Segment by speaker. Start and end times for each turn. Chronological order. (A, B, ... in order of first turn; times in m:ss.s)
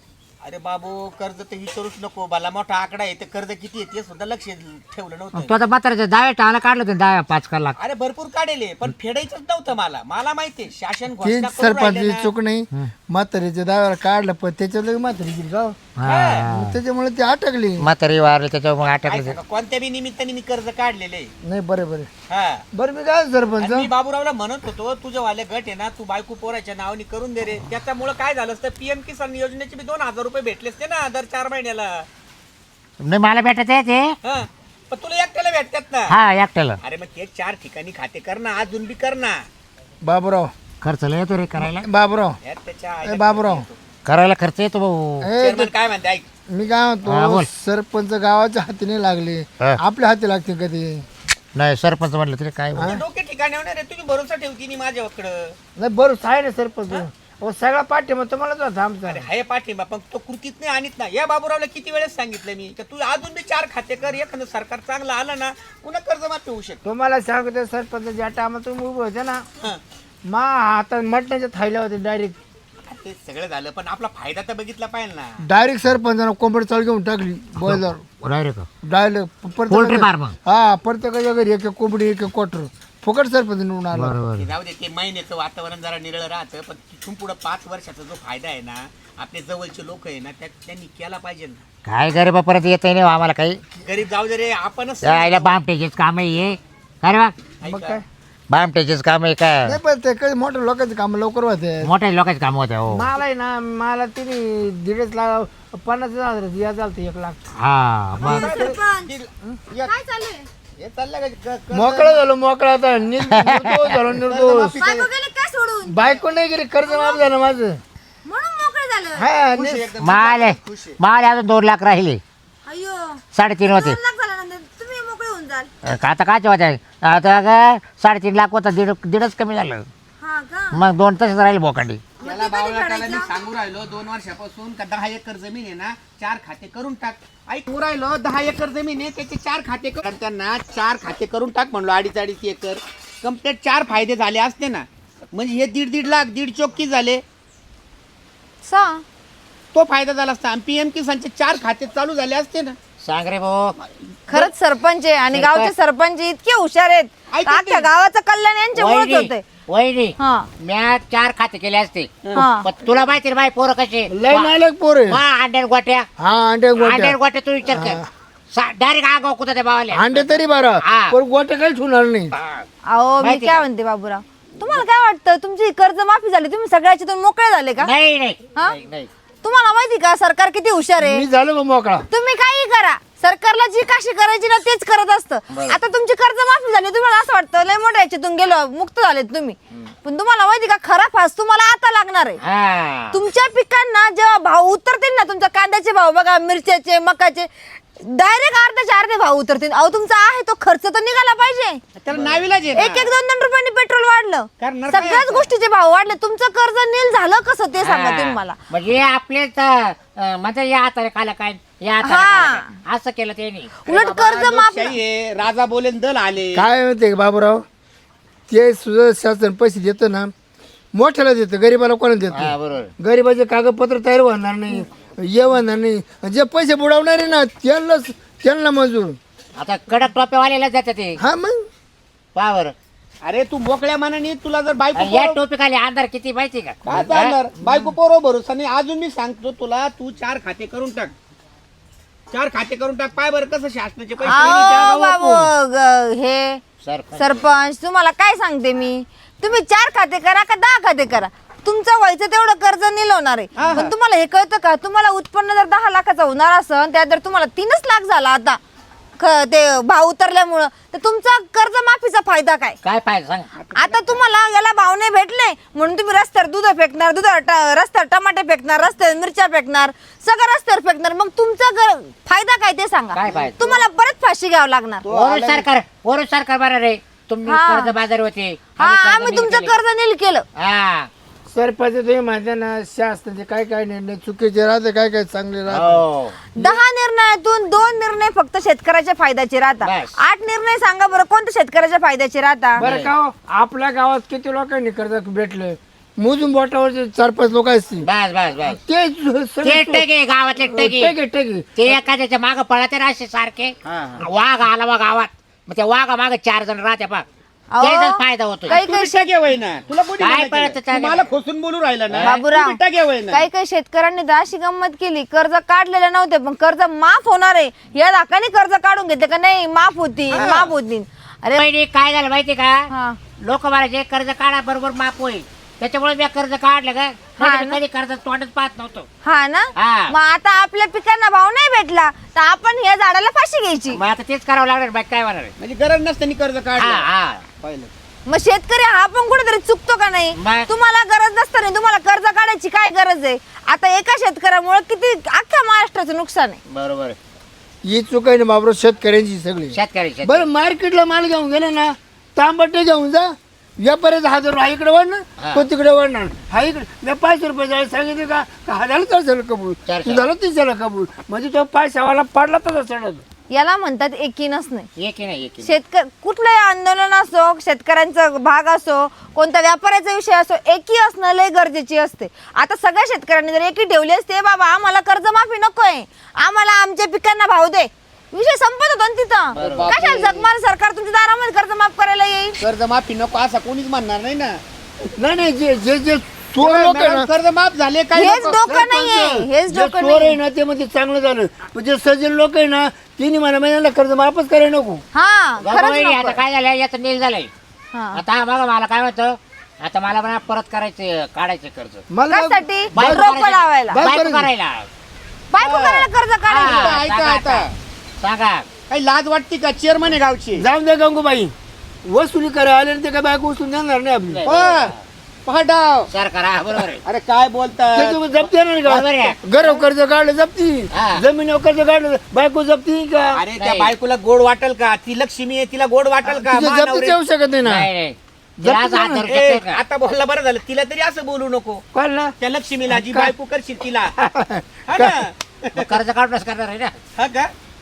0:00.4-0:05.5 A
0:05.3-0:07.8 B
0:07.8-0:12.3 A
0:11.2-0:15.8 C
0:16.0-0:16.8 B
0:16.0-0:16.5 A
0:16.4-0:17.9 C
0:17.8-0:19.4 B
0:18.9-0:21.3 A
0:21.4-0:22.1 C
0:22.3-0:22.6 A
0:22.7-0:23.9 C
0:23.6-0:32.1 A
0:33.0-0:34.1 B
0:34.2-0:36.1 A
0:36.1-0:36.8 B
0:36.8-0:39.4 A
0:40.0-0:40.5 C
0:40.8-0:41.9 B
0:41.6-0:42.4 C
0:42.4-0:43.8 A
0:43.0-0:43.6 C
0:44.0-0:45.3 B
0:45.2-0:45.7 C
0:45.4-0:46.2 A
0:46.5-0:51.0 C
0:47.0-0:47.5 B
0:51.5-0:53.0 B
0:52.7-0:53.0 C
0:52.8-0:55.5 A
0:55.8-0:59.2 C
0:59.0-1:06.8 A
1:06.8-1:09.4 C
1:10.3-1:12.4 C
1:12.9-1:15.4 A
1:15.4-1:18.0 C
1:17.6-1:18.7 B
1:18.8-1:24.2 C
1:19.7-1:20.4 B
1:23.9-1:24.5 B
1:24.4-1:31.6 A
1:31.8-1:33.6 B
1:33.8-1:35.6 A
1:35.0-1:37.4 B
1:37.6-1:38.0 A
1:37.6-1:38.0 C
1:38.5-1:39.8 B
1:39.6-1:41.9 C
1:41.8-1:43.1 B
1:42.9-1:47.5 C
1:47.6-1:48.5 B
1:48.2-1:49.9 A
1:48.2-1:49.1 D
1:49.8-1:50.4 D
1:50.8-1:52.2 A
1:51.7-1:54.7 C
1:53.3-1:54.0 B
1:54.2-1:55.1 A
1:54.8-1:56.2 D
1:55.9-1:57.8 C
1:56.8-1:57.2 D
1:58.2-1:59.3 D
1:59.2-1:59.9 C
1:59.5-2:01.0 A
2:00.0-2:02.2 B
2:02.6-2:03.2 D
2:03.3-2:04.0 B
2:03.7-2:05.7 D
2:05.8-2:09.9 B
2:10.2-2:10.8 D
2:10.7-2:12.0 B
2:12.2-2:13.3 D
2:12.2-2:27.2 A
2:28.6-2:29.0 D
2:29.7-2:32.8 A
2:33.0-2:33.7 B
2:34.3-2:39.4 D
2:35.3-2:35.7 B
2:37.3-2:37.9 A
2:38.8-2:46.1 B
2:40.2-2:40.5 D
2:42.3-2:42.7 D
2:44.1-2:45.2 C
2:46.2-2:48.1 C
2:46.8-2:51.2 B
2:49.9-2:52.3 C
2:52.3-2:52.7 B
2:52.8-2:57.9 D
2:53.2-2:53.6 B
2:57.8-2:59.1 B
2:59.4-3:01.2 D
3:01.0-3:02.0 C
3:02.1-3:12.4 D
3:05.5-3:05.8 B
3:12.4-3:13.2 B
3:13.1-3:21.8 D
3:22.0-3:23.1 A
3:22.1-3:22.4 B
3:22.7-3:28.6 D
3:24.6-3:25.5 A
3:27.8-3:33.7 B
3:32.0-3:32.7 D
3:33.8-3:35.0 D
3:33.9-3:36.7 A
3:36.5-3:37.6 C
3:38.5-3:40.3 C
3:40.9-3:49.2 C
3:42.3-3:42.9 B
3:49.6-3:51.2 B
3:51.2-3:51.7 C
3:52.3-3:52.7 B
3:53.2-3:55.4 A
3:54.9-3:57.4 B
3:56.8-4:01.1 A
3:56.9-3:57.9 C
4:02.3-4:05.5 A
4:04.2-4:06.6 D
4:06.8-4:07.4 B
4:07.2-4:18.6 D
4:13.6-4:13.9 A
4:19.2-4:22.8 D
4:22.8-4:23.5 B
4:23.5-4:24.2 A
4:23.7-4:35.0 D
4:33.1-4:33.8 B
4:35.0-4:35.7 A
4:35.0-4:39.8 B
4:37.4-4:37.9 D
4:38.8-4:40.4 D
4:40.6-4:41.1 B
4:41.5-4:46.0 C
4:45.7-4:46.4 B
4:46.5-4:52.8 D
4:49.8-4:50.2 B
4:52.8-4:58.1 C
4:52.8-4:53.1 B
4:58.0-4:58.8 B
4:58.6-5:00.0 C
4:59.6-5:01.1 B
5:00.6-5:01.7 C
5:01.8-5:07.2 B
5:03.8-5:04.2 A
5:07.7-5:09.3 D
5:07.8-5:08.8 B
5:08.7-5:13.4 A
5:10.2-5:11.3 B
5:12.1-5:12.4 B
5:12.2-5:12.8 D
5:13.3-5:21.6 D
5:20.3-5:20.7 A
5:21.5-5:22.9 B
5:22.9-5:23.2 D
5:23.4-5:29.1 B
5:27.4-5:27.8 D
5:29.2-5:34.0 D
5:29.8-5:30.1 B
5:33.9-5:35.5 B
5:35.6-5:37.0 A
5:36.8-5:37.4 B
5:37.6-5:37.9 A
5:38.3-5:46.6 D
5:40.4-5:40.7 B
5:46.7-5:47.2 B
5:47.8-6:03.2 C
5:49.7-5:50.5 B
5:55.4-5:55.7 B
5:59.9-6:00.3 B
6:03.5-6:04.9 D
6:05.0-6:05.7 B
6:05.6-6:22.6 D
6:19.5-6:19.9 B
6:19.6-6:20.5 A
6:22.6-6:24.6 A
6:25.0-6:27.3 C
6:26.6-6:28.6 A
6:28.2-6:30.4 D
6:28.6-6:35.0 C
6:35.1-6:36.4 D
6:35.6-6:37.5 B
6:37.9-6:38.2 D
6:38.1-6:42.0 B
6:42.1-6:43.2 C
6:42.3-6:44.0 D
6:42.9-6:44.9 B
6:43.9-6:44.5 C
6:45.5-6:47.0 D
6:45.6-6:46.1 A
6:46.5-6:47.6 B
6:46.6-6:47.7 A
6:48.2-6:48.7 B
6:48.9-6:50.6 A
6:50.6-6:51.5 C
6:52.0-6:54.4 C
6:54.3-6:55.0 B
6:54.4-6:56.1 A
6:56.1-6:57.0 B
6:56.8-6:58.2 A
6:57.9-7:03.4 C
6:58.8-6:59.4 B
7:00.9-7:01.2 B
7:03.3-7:07.2 A
7:03.6-7:03.9 B
7:06.2-7:07.9 C
7:07.6-7:09.8 B
7:08.6-7:09.3 C
7:09.3-7:11.8 A
7:11.9-7:12.3 C
7:12.4-7:14.1 A
7:12.9-7:13.3 C
7:14.2-7:15.3 C
7:14.9-7:15.9 A
7:15.7-7:17.0 B
7:17.2-7:17.5 A